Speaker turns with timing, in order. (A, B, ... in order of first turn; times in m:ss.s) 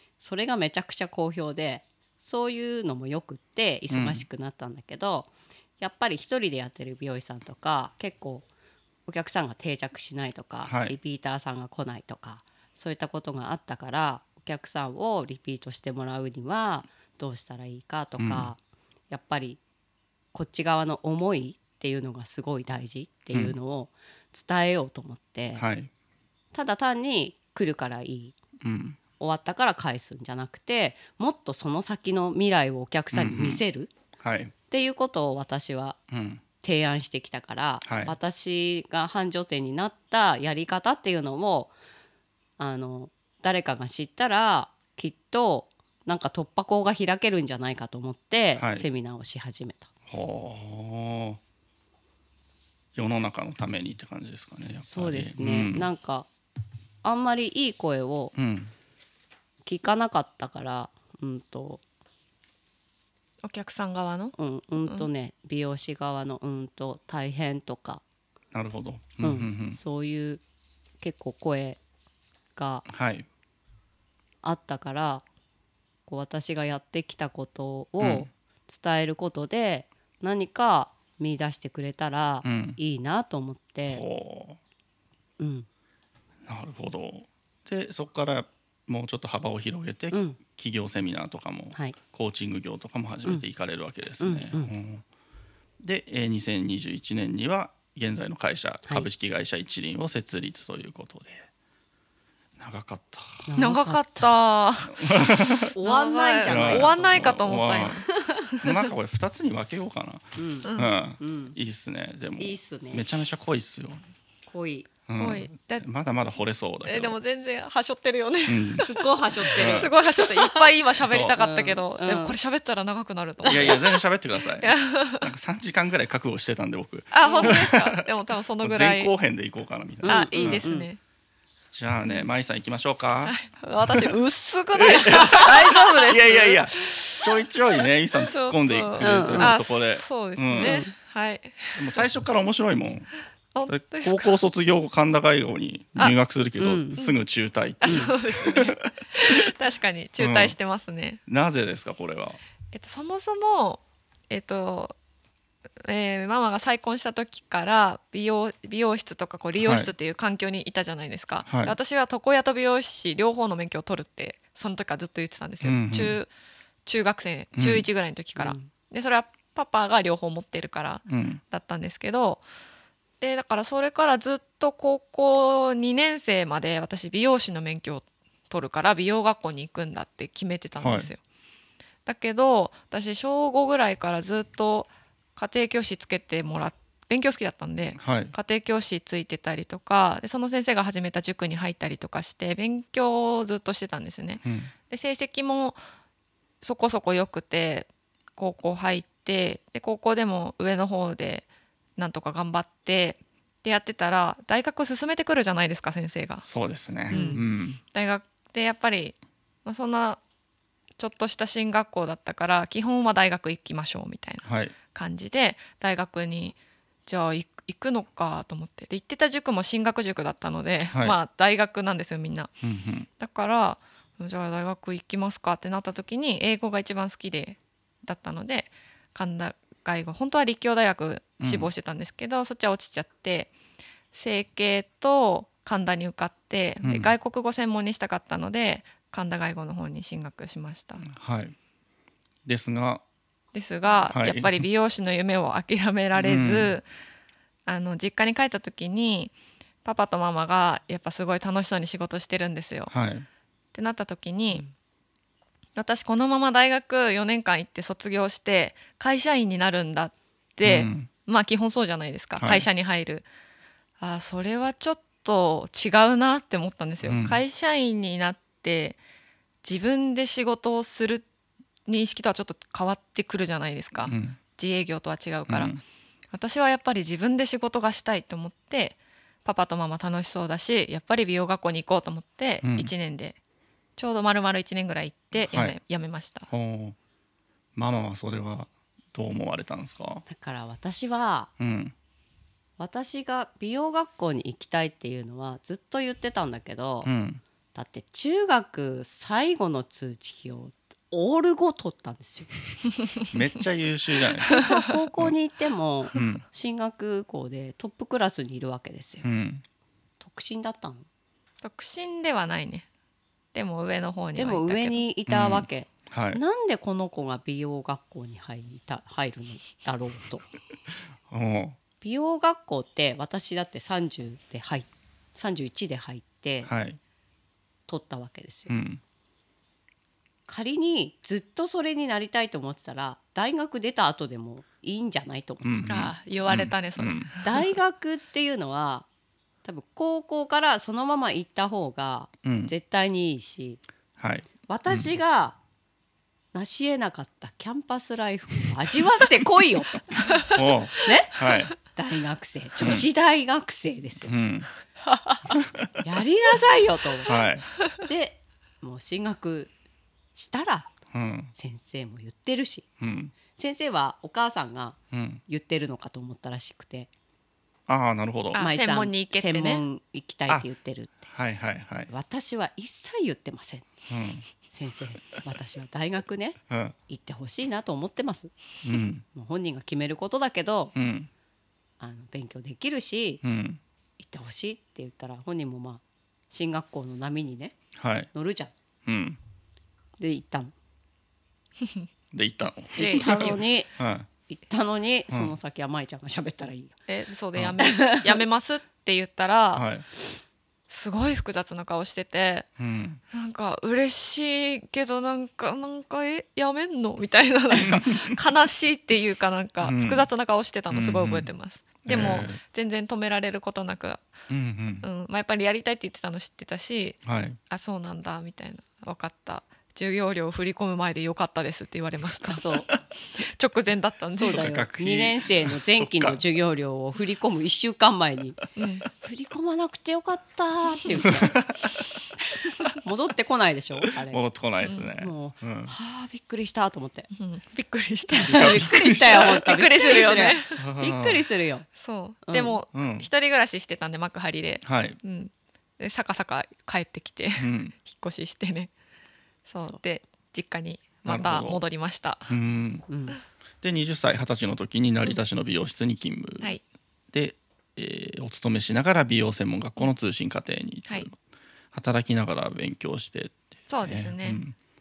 0:00.2-0:08.5 A
0:03.9-0:04.2 B
0:09.1-0:18.6 A
0:10.6-0:10.9 B
0:18.2-0:18.5 B
0:19.1-0:19.6 A
0:20.3-0:25.6 A
0:25.5-0:25.9 B
0:26.5-0:28.4 A
0:28.6-0:29.0 B
0:29.2-0:33.9 A
0:33.1-0:33.6 B
0:34.2-0:34.5 B
0:34.7-0:36.0 A
0:36.1-0:36.4 B
0:36.6-0:41.7 A
0:37.8-0:38.2 B
0:42.6-0:49.9 A
0:48.6-0:48.8 B
0:50.1-0:51.4 B
0:52.9-0:55.9 B
0:54.8-0:56.3 A
0:57.0-0:58.3 A
0:58.3-0:58.7 B
0:59.6-1:01.8 A
1:03.4-1:05.1 C
1:04.4-1:08.0 A
1:08.5-1:09.8 B
1:09.2-1:10.4 A
1:11.0-1:11.8 A
1:12.6-1:12.9 A
1:12.9-1:13.3 B
1:14.4-1:15.2 A
1:16.1-1:24.0 A
1:18.0-1:18.3 B
1:22.4-1:22.8 B
1:23.9-1:24.6 B
1:25.4-1:25.7 A
1:26.4-1:35.0 B
1:30.1-1:30.4 A
1:34.2-1:34.7 A
1:35.8-1:41.5 B
1:42.6-1:43.5 B
1:43.4-1:44.0 A
1:43.6-1:45.1 C
1:44.9-1:45.7 B
1:45.7-1:48.5 A
1:45.8-1:48.7 C
1:46.4-1:54.0 B
1:50.4-1:51.6 A
1:50.6-1:50.9 C
1:52.4-1:53.0 A
1:54.5-1:54.9 A
1:55.1-1:57.2 B
1:55.2-1:55.8 C
1:56.8-2:04.0 C
1:58.4-1:58.9 B
1:58.8-2:00.7 A
1:59.4-1:59.9 B
2:01.0-2:01.3 B
2:01.4-2:02.4 A
2:03.4-2:03.9 A
2:03.4-2:08.0 B
2:04.6-2:05.3 C
2:07.1-2:09.1 C
2:07.2-2:07.6 A
2:08.6-2:10.7 B
2:10.0-2:10.9 A
2:10.0-2:11.0 C
2:11.7-2:13.3 B
2:12.0-2:12.3 C
2:13.2-2:17.3 C
2:13.8-2:14.1 B
2:14.7-2:20.8 B
2:18.1-2:22.0 C
2:19.0-2:19.6 A
2:20.6-2:20.9 A
2:21.8-2:23.1 B
2:23.5-2:24.3 C
2:23.7-2:28.8 B
2:26.6-2:27.0 A
2:27.8-2:31.2 C
2:27.8-2:28.1 A
2:30.2-2:30.6 B
2:31.3-2:32.4 B
2:32.7-2:35.0 C
2:35.8-2:46.3 C
2:39.5-2:39.9 B
2:41.4-2:41.8 B
2:45.6-2:46.2 B
2:46.8-2:52.4 C
2:47.6-2:47.8 B
2:48.4-2:48.7 A
2:51.1-2:51.4 B
2:53.2-3:01.2 C
3:00.8-3:01.1 B
3:02.0-3:15.8 C
3:08.0-3:08.3 B
3:14.4-3:14.7 B
3:16.6-3:21.4 C
3:22.0-3:26.4 C
3:26.4-3:27.8 B
3:27.1-3:30.2 C
3:27.1-3:27.4 A
3:31.0-3:42.5 C
3:34.4-3:34.7 B
3:42.6-3:43.1 B
3:43.2-3:53.5 C
3:51.4-3:51.7 B
3:54.1-4:01.0 C
3:56.8-3:57.1 B
4:01.0-4:01.5 B
4:02.4-4:03.0 B
4:03.5-4:06.8 C
4:04.1-4:04.7 B
4:06.2-4:06.8 B
4:07.6-4:09.3 C
4:09.8-4:12.9 C
4:12.9-4:13.2 B
4:13.7-4:14.6 C
4:15.8-4:23.3 C
4:20.6-4:21.1 B
4:22.4-4:22.7 B
4:24.0-4:29.0 C
4:27.0-4:27.4 B
4:29.6-4:31.2 C
4:31.9-4:35.8 C
4:34.0-4:34.4 B
4:35.5-4:35.8 B
4:36.3-4:43.4 C
4:42.6-4:42.9 B
4:44.0-4:46.5 C
4:45.4-4:45.8 B
4:46.5-4:47.0 B
4:47.8-4:50.2 B
4:50.3-4:51.5 A
4:51.6-4:51.9 B
4:52.8-4:57.1 A
4:57.0-4:57.4 B
4:57.7-5:02.5 A
5:03.3-5:04.5 B
5:04.5-5:09.3 A
5:04.5-5:04.8 C
5:06.1-5:06.4 B
5:09.2-5:09.6 B
5:10.2-5:11.1 A
5:11.6-5:12.9 C
5:13.5-5:15.0 C
5:14.4-5:20.5 A
5:15.3-5:16.4 B
5:21.3-5:21.8 B
5:22.0-5:26.7 A
5:26.6-5:27.0 B
5:27.9-5:28.7 A
5:28.7-5:29.0 B
5:30.5-5:35.9 A
5:35.6-5:37.3 B
5:35.8-5:37.7 C
5:37.4-5:39.1 A
5:39.6-5:43.8 A
5:42.4-5:42.7 B
5:44.2-5:45.1 B
5:44.6-5:45.6 A
5:46.5-5:50.4 A
5:50.5-5:51.7 B
5:51.0-5:54.3 A
5:52.8-5:53.0 B
5:54.2-5:54.7 B
5:56.0-5:59.7 A
5:57.3-5:57.7 B
6:00.3-6:00.9 A
6:01.1-6:01.5 B
6:01.5-6:02.9 A
6:03.0-6:03.3 B
6:03.4-6:07.1 A
6:05.1-6:05.4 B
6:07.9-6:08.6 B
6:08.5-6:09.8 C
6:08.6-6:11.2 A
6:11.3-6:12.1 B
6:12.1-6:13.9 A
6:14.1-6:14.4 B
6:14.6-6:18.5 A
6:16.7-6:16.9 B
6:18.8-6:19.2 B
6:19.3-6:20.9 A
6:21.0-6:21.3 B
6:22.0-6:23.4 A
6:23.4-6:23.8 B
6:24.2-6:27.8 A
6:28.0-6:28.3 B
6:28.3-6:28.7 A
6:29.0-6:29.4 B
6:30.2-6:30.7 A
6:32.3-6:34.3 B
6:33.0-6:33.6 C
6:33.0-6:33.9 A
6:34.5-6:37.0 A
6:37.1-6:39.9 C
6:37.8-6:38.4 A
6:39.7-6:40.0 B
6:40.9-6:42.7 C
6:42.8-6:43.2 B
6:43.3-6:54.2 C
6:47.8-6:48.2 B
6:49.8-6:50.3 B
6:50.9-6:51.5 B
6:52.0-6:52.6 B
6:54.5-6:55.0 B
6:55.0-7:02.6 C
6:57.2-6:57.6 B
7:02.5-7:02.9 A
7:03.3-7:04.7 C
7:04.3-7:08.6 A
7:04.5-7:06.4 B
7:08.8-7:09.1 C
7:09.1-7:11.6 A
7:11.4-7:11.9 B
7:12.9-7:14.4 A
7:14.3-7:15.9 B
7:14.8-7:15.1 C
7:15.1-7:17.3 A
7:17.3-7:20.8 C
7:18.3-7:21.9 A
7:18.4-7:19.5 B
7:20.8-7:21.4 B
7:22.0-7:28.9 C
7:22.5-7:22.8 A
7:22.9-7:23.3 B
7:24.8-7:25.2 B
7:27.6-7:27.9 B
7:29.7-7:32.6 C
7:31.2-7:31.8 B
7:32.5-7:33.0 B
7:33.1-7:33.4 A
7:33.8-7:36.7 B
7:37.3-7:41.3 B
7:41.9-7:44.7 B
7:43.9-7:44.6 C